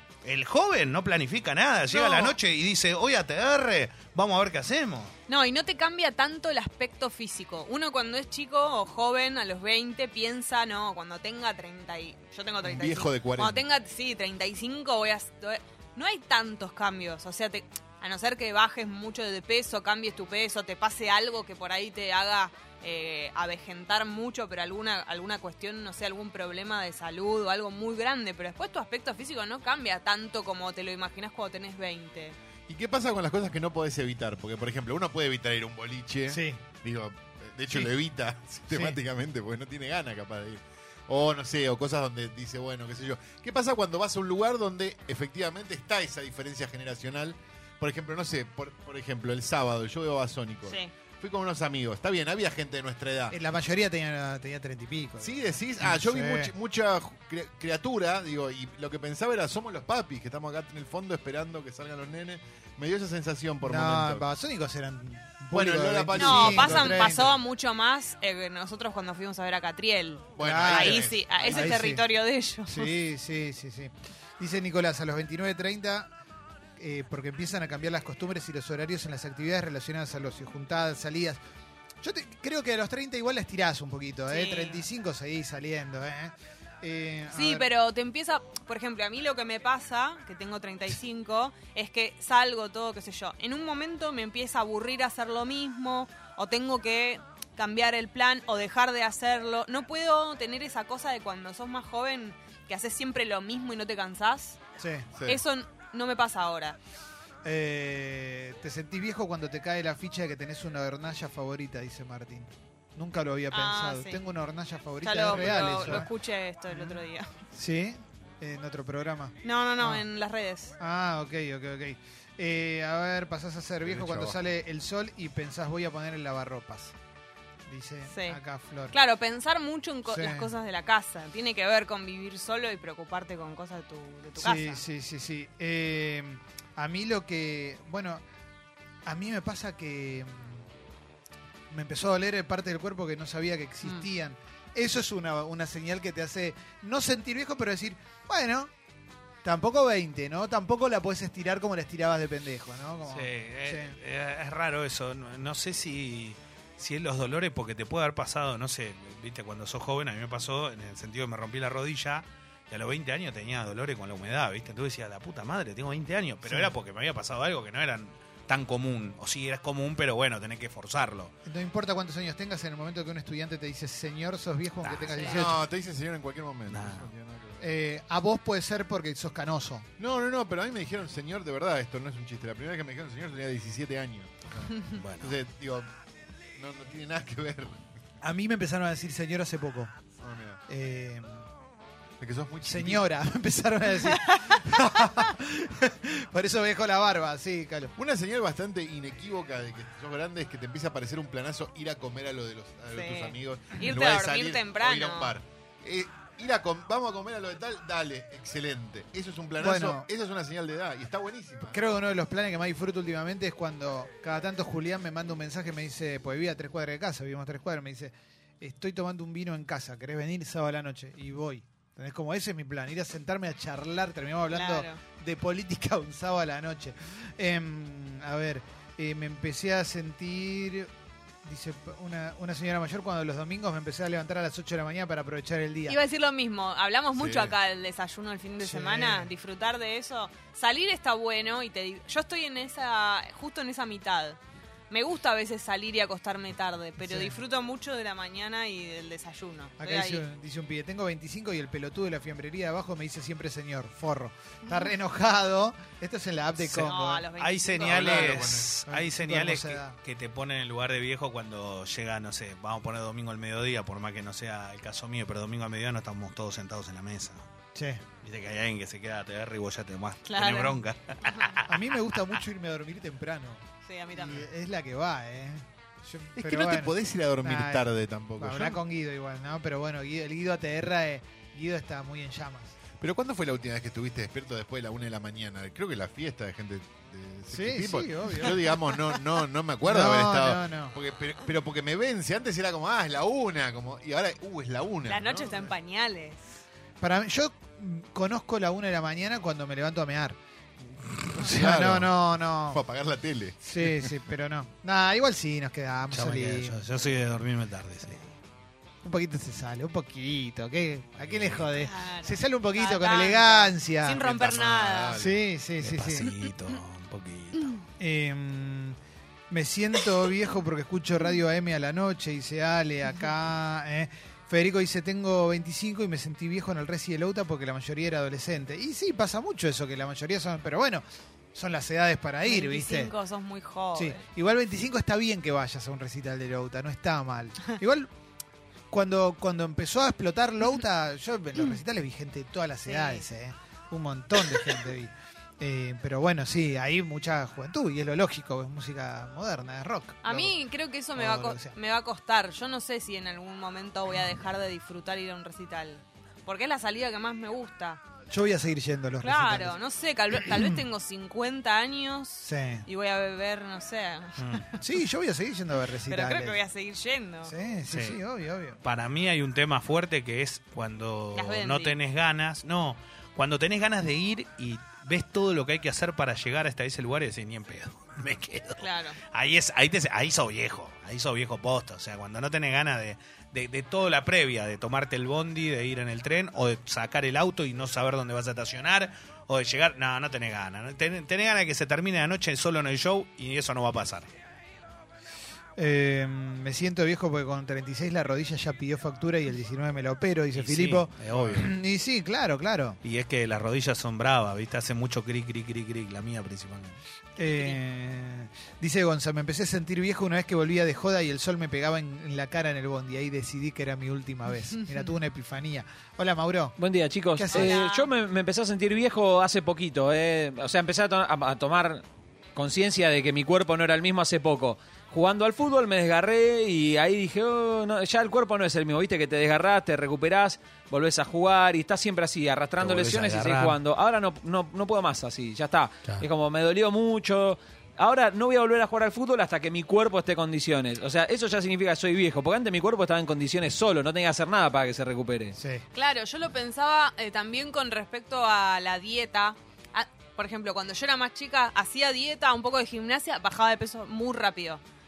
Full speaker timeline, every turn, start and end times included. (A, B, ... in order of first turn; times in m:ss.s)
0:00.2-0:05.1 A
0:01.9-0:02.4 B
0:05.3-0:32.4 B
0:12.6-0:13.6 C
0:32.7-0:53.4 C
0:36.3-0:36.6 D
0:38.7-0:39.0 D
0:50.7-0:50.9 B
0:53.3-0:56.5 D
0:55.2-1:04.3 C
1:03.6-1:07.3 D
1:05.5-1:07.4 C
1:06.2-1:12.9 B
1:10.4-1:11.7 C
1:10.4-1:12.0 D
1:12.7-1:16.1 D
1:16.8-1:21.4 D
1:22.0-1:27.7 D
1:24.3-1:24.8 B
1:27.3-1:44.6 B
1:44.8-1:45.1 D
1:45.1-1:45.4 C
1:45.2-1:46.8 B
1:47.4-1:56.1 D
1:53.5-1:54.2 B
1:55.0-1:57.3 B
1:55.3-1:56.0 C
1:56.7-1:57.0 D
1:57.5-2:00.0 D
1:59.4-2:00.8 B
2:00.8-2:06.9 D
2:03.8-2:04.4 C
2:07.7-2:08.9 D
2:08.1-2:08.4 B
2:08.9-2:14.8 B
2:10.0-2:10.5 D
2:14.4-2:18.2 D
2:19.0-2:20.6 D
2:21.7-2:28.7 D
2:29.4-2:34.0 D
2:33.1-2:51.3 A
2:46.4-2:46.7 D
2:51.4-2:55.6 D
2:54.8-2:55.2 A
2:55.2-2:57.6 C
2:56.7-2:57.1 A
2:57.6-2:59.9 D
3:00.0-3:05.9 C
3:04.9-3:05.3 A
3:06.6-3:07.8 C
3:08.2-3:09.9 D
3:10.2-3:10.6 C
3:10.7-3:11.4 D
3:12.2-3:13.0 C
3:12.6-3:17.9 D
3:18.0-3:31.8 C
3:22.9-3:25.3 B
3:29.6-3:30.1 D
3:31.7-3:50.9 D
3:44.5-3:45.0 B
3:51.4-3:56.0 D
3:55.9-4:04.4 B
3:57.1-3:57.6 C
3:58.6-3:59.3 D
4:04.9-4:10.2 B
4:07.0-4:07.4 D
4:09.8-4:17.2 D
4:16.6-4:27.4 A
4:16.8-4:18.5 B
4:17.8-4:18.8 C
4:18.8-4:20.0 D
4:27.7-4:28.0 D
4:28.2-4:31.6 A
4:30.3-4:31.5 B
4:31.7-4:33.6 D
4:33.8-4:34.4 B
4:34.1-4:37.8 D
4:36.4-4:38.8 C
4:38.4-4:42.7 D
4:43.0-4:55.7 C
4:47.5-4:48.7 D
4:49.8-4:50.9 D
4:55.1-4:56.6 B
4:57.0-5:00.4 D
5:01.3-5:02.8 D
5:01.4-5:04.1 C
5:03.6-5:06.8 D
5:06.1-5:08.2 A
5:09.0-5:14.2 D
5:11.3-5:11.6 A
5:11.8-5:15.2 B
5:14.1-5:15.4 C
5:15.2-5:16.3 D
5:15.8-5:17.8 A
5:18.0-5:19.0 D
5:19.5-5:31.0 D
5:31.5-5:33.1 D
5:32.4-5:34.2 B
5:33.9-5:38.1 D
5:38.9-5:50.6 D
5:42.9-5:43.2 B
5:50.2-5:58.0 B
5:51.2-5:51.7 D
5:58.3-5:59.7 D
5:59.2-6:04.8 B
6:02.4-6:02.8 D
6:04.4-6:04.6 A
6:04.8-6:06.6 D
6:06.1-6:07.5 B
6:07.5-6:08.8 D
6:07.9-6:08.2 A
6:08.8-6:34.3 A
6:11.3-6:12.0 B
6:18.8-6:19.2 B
6:35.8-6:43.0 D
6:40.5-6:41.7 A
6:41.3-6:41.6 C
6:43.0-6:47.0 A
6:47.4-6:56.8 D
6:47.5-6:47.8 B
6:56.8-7:02.0 E
6:57.3-6:57.7 D
6:57.5-6:58.1 B
7:02.5-7:25.6 E
7:12.8-7:13.8 A
7:25.6-7:25.8 D
7:25.9-7:34.8 B